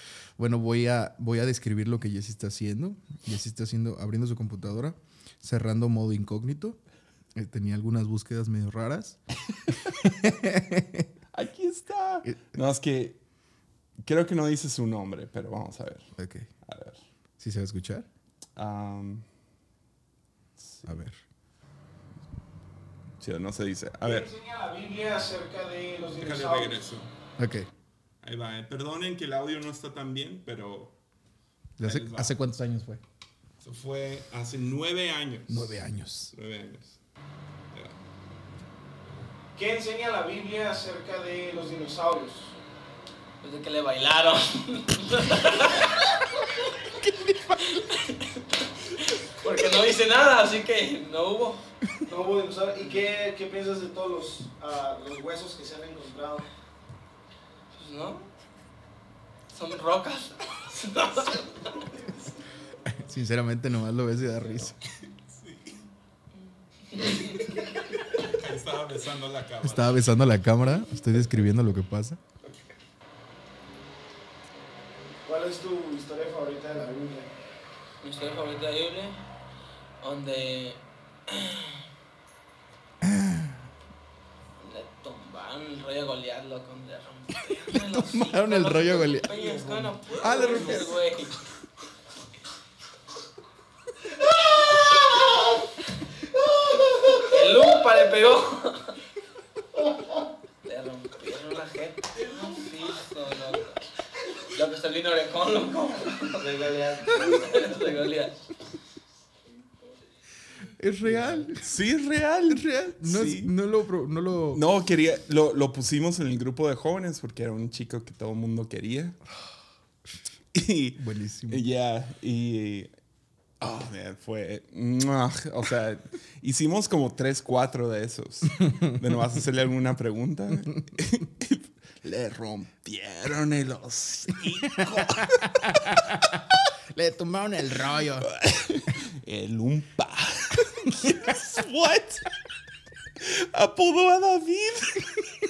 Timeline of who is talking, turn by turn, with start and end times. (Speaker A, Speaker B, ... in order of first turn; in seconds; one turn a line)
Speaker A: 0.4-6.8
Speaker A: 7.4-9.2
Speaker A: 9.7-11.1
Speaker B: 11.3-13.2
Speaker B: 14.0-16.1
Speaker A: 16.1-16.5
Speaker B: 16.6-17.0
Speaker A: 17.4-18.1
Speaker B: 18.6-19.3
Speaker B: 20.6-20.8
Speaker A: 20.9-21.2
Speaker B: 23.2-24.3
Speaker C: 24.1-26.8
Speaker B: 26.2-27.1
Speaker A: 27.4-27.7
Speaker B: 28.2-30.9
Speaker A: 31.8-33.0
Speaker B: 31.8-32.3
Speaker B: 33.6-37.0
Speaker A: 35.5-36.3
Speaker C: 39.5-42.5
Speaker D: 43.4-46.7
Speaker A: 46.9-47.9
Speaker D: 47.7-51.6
Speaker C: 52.0-56.5
Speaker D: 57.7-58.3
Speaker D: 59.5-62.0
Speaker A: 62.9-64.8
Speaker B: 65.3-65.8
Speaker D: 66.9-67.6
Speaker B: 67.6-70.0
Speaker A: 69.6-72.2
Speaker C: 75.2-77.3
Speaker D: 78.0-79.2
Speaker D: 80.0-81.8
Speaker A: 83.0-83.6
Speaker D: 84.6-91.4
Speaker A: 87.7-91.0
Speaker D: 94.6-95.2
Speaker D: 97.1-99.0
Speaker D: 100.6-103.8
Speaker D: 104.4-108.4
Speaker C: 106.4-107.5
Speaker A: 110.8-111.7
Speaker B: 111.6-113.5
Speaker A: 112.5-114.6
Speaker B: 114.5-119.2
Speaker B: 120.5-122.9
Speaker A: 121.0-121.6
Speaker B: 123.6-136.0
Speaker A: 135.1-136.2
Speaker A: 136.9-138.3
Speaker B: 138.3-142.3
Speaker B: 143.2-145.3